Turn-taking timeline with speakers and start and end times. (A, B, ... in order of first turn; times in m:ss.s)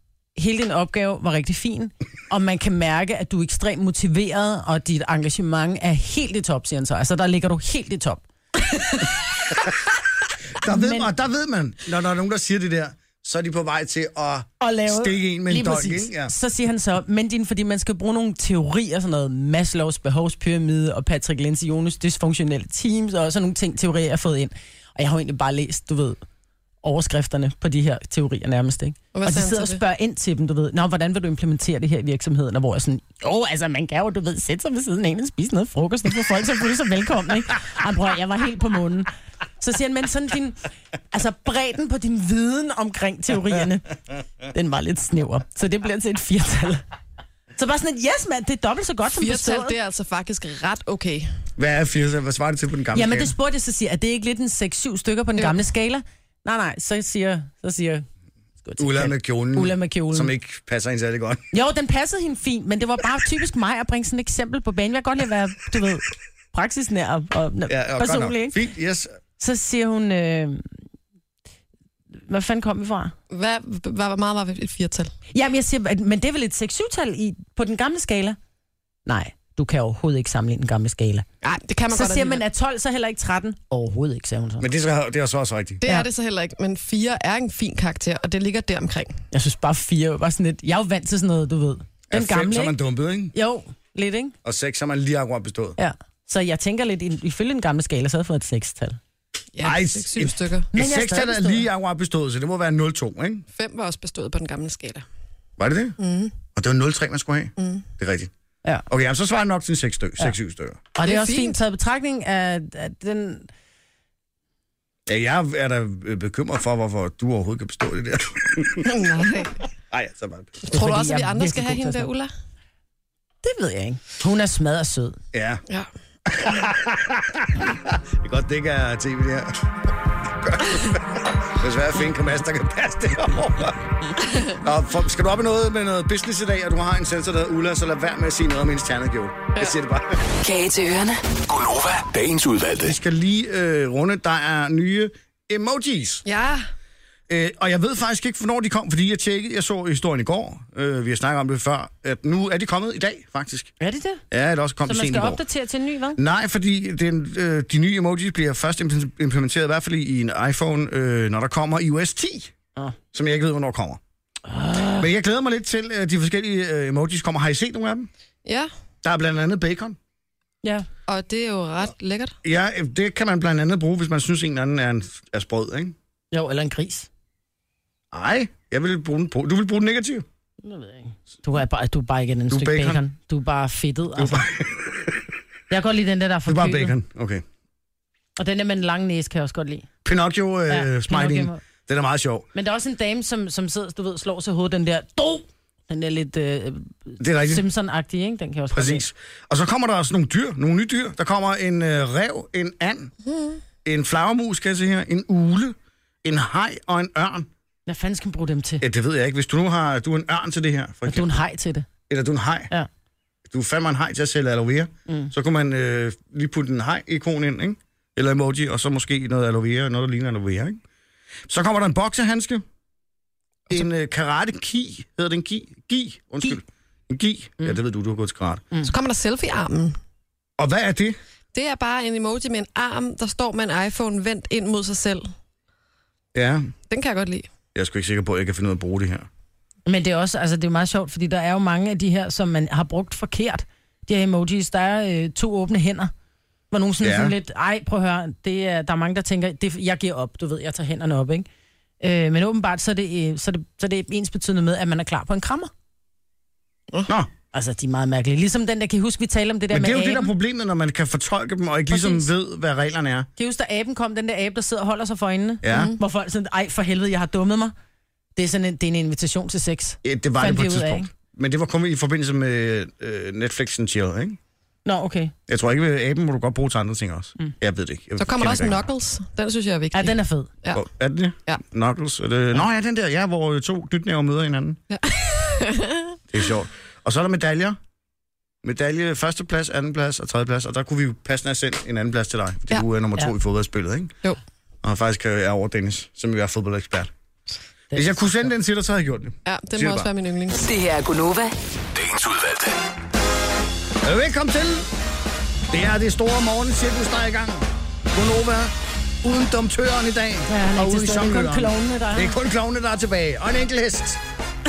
0:00.4-0:09.1 A
0:10.6-0:16.3 B
0:10.6-0:11.1 A
0:14.6-0:26.2 A
0:26.8-0:40.6 A
0:29.1-0:29.8 C
0:41.1-0:43.9 A
0:44.5-0:46.8 A
0:47.6-0:49.8 A
0:49.1-0:51.3 C
0:51.6-0:53.3 B
0:52.9-0:58.1 A
0:58.6-1:00.3 A
0:58.8-1:01.4 B
1:01.5-1:08.6 A
1:07.7-1:09.2 B
1:09.4-1:10.7 A
1:12.3-1:13.1 A
1:13.3-1:15.1 C
1:15.3-1:18.4 A
1:19.1-1:21.3 A
1:21.4-1:22.4 C
1:21.9-1:24.7 A
1:24.6-1:25.8 B
1:25.8-1:29.2 C
1:29.3-1:32.8 A
1:32.1-1:33.3 B
1:33.3-1:34.4 A
1:34.4-1:35.8 B
1:35.8-1:39.0 A
1:39.5-1:40.7 C
1:39.6-1:43.4 B
1:40.7-1:41.6 A
1:43.6-1:45.0 C
1:45.6-1:46.0 B
1:46.0-1:46.3 C
1:46.6-1:48.3 B
1:47.6-1:47.9 C
1:48.9-1:50.8 B
1:51.0-1:53.5 A
1:51.0-1:51.6 C
1:55.1-1:59.0 B
1:58.9-1:59.6 C
1:59.9-2:00.7 B
2:00.7-2:02.3 C
2:00.7-2:02.1 A
2:03.4-2:05.2 A
2:05.3-2:05.6 B
2:06.3-2:09.6 B
2:10.4-2:13.8 B
2:14.5-2:20.2 B
2:20.4-2:21.4 D
2:21.5-2:23.0 E
2:22.8-2:26.2 B
2:26.3-2:26.7 C
2:27.3-2:33.7 B
2:33.8-2:34.2 A
2:34.3-2:35.4 B
2:34.9-2:36.2 A
2:36.2-2:42.5 B
2:43.1-2:44.0 B
2:44.5-2:45.1 A
2:45.0-2:48.1 B
2:49.0-2:50.0 B
2:51.1-2:52.4 C
2:52.4-2:56.0 B
2:56.3-2:57.1 A
2:58.1-3:00.2 B
3:00.6-3:04.5 A
3:02.5-3:03.0 B
3:04.2-3:05.2 B
3:05.7-3:07.0 A
3:06.5-3:07.4 B
3:08.4-3:09.9 A
3:10.0-3:12.5 B
3:10.7-3:11.6 A
3:12.6-3:19.0 A
3:17.2-3:17.6 B
3:18.7-3:23.1 B
3:23.2-3:23.6 C
3:23.8-3:27.5 B
3:27.9-3:28.8 A
3:28.8-3:31.3 B
3:31.1-3:31.9 A
3:32.1-3:32.7 B
3:33.5-3:40.8 B
3:41.5-3:42.6 B
3:43.7-3:48.7 B
3:48.8-3:50.0 C
3:50.6-3:51.2 B
3:51.5-3:55.3 C
3:56.3-3:56.7 B
3:56.9-3:57.5 C
3:57.8-3:59.3 B
3:59.9-4:06.1 A
4:06.7-4:11.5 A
4:07.0-4:07.4 B
4:12.0-4:15.7 A
4:17.5-4:20.3 A
4:19.7-4:23.3 B
4:21.9-4:22.3 A
4:23.4-4:27.7 A
4:25.6-4:26.0 B
4:28.4-4:31.1 A
4:30.0-4:34.4 B
4:34.8-4:35.3 A
4:35.5-4:38.9 B
4:38.2-4:40.8 C
4:39.9-4:40.5 A
4:40.7-4:44.8 B
4:44.9-4:46.2 C
4:46.3-4:47.8 B
4:48.6-4:54.2 B
4:54.8-4:57.1 B
4:57.9-4:58.2 A
4:57.9-5:00.1 B
4:59.5-5:00.6 C
5:00.6-5:01.6 D
5:02.0-5:02.8 E
5:04.0-5:04.9 B
5:05.7-5:14.2 B
5:10.5-5:12.4 A